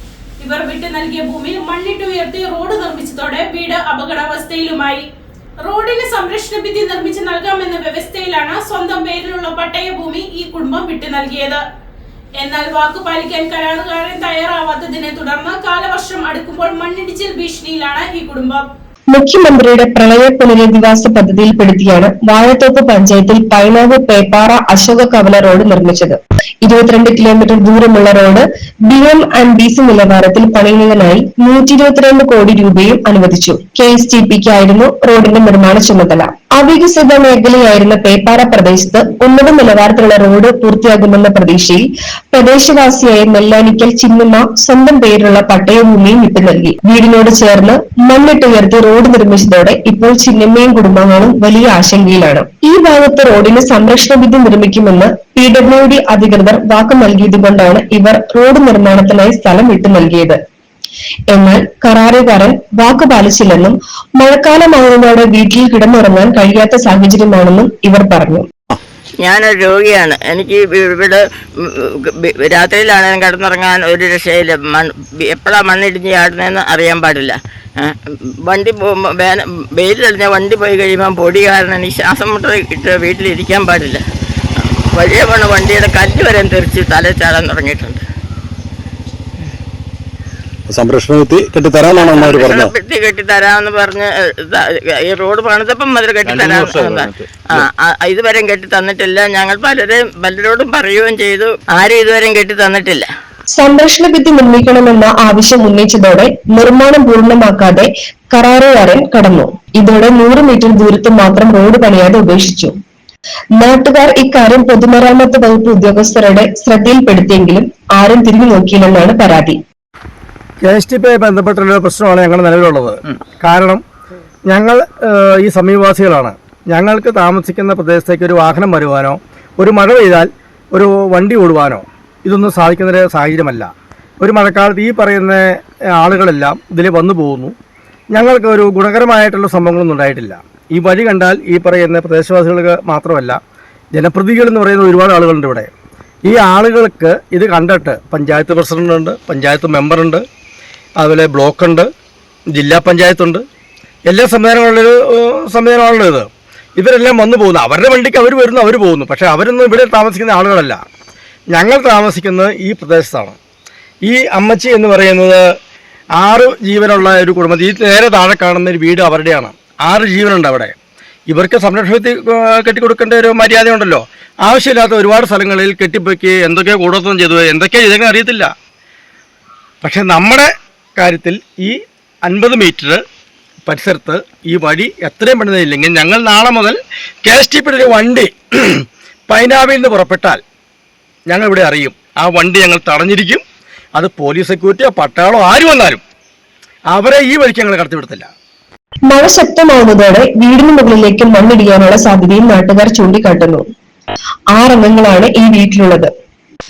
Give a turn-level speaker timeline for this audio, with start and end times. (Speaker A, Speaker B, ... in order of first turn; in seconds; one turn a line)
Speaker A: 0.4-5.0
Speaker A: 5.6-11.6
Speaker A: 12.4-18.6
Speaker B: 19.1-60.4
Speaker B: 61.3-68.5
Speaker C: 69.2-84.0
Speaker C: 84.9-88.0
Speaker D: 90.7-92.7
Speaker C: 92.0-103.1
Speaker D: 96.2-97.7
Speaker B: 103.5-112.7
Speaker B: 113.6-119.6
Speaker E: 120.6-123.8
Speaker E: 124.5-137.6
Speaker E: 138.1-143.4
Speaker E: 143.9-145.7
Speaker E: 146.3-150.2
Speaker E: 151.0-151.9
Speaker E: 152.5-153.4
Speaker E: 154.1-160.8
Speaker E: 161.5-163.4
Speaker E: 164.1-165.4
Speaker E: 166.2-170.8
Speaker E: 171.3-178.5
Speaker E: 179.8-183.0
Speaker E: 183.7-190.4
Speaker E: 191.3-193.4
Speaker E: 194.0-196.0
Speaker E: 196.9-198.3
Speaker B: 199.1-203.6
Speaker B: 204.5-206.1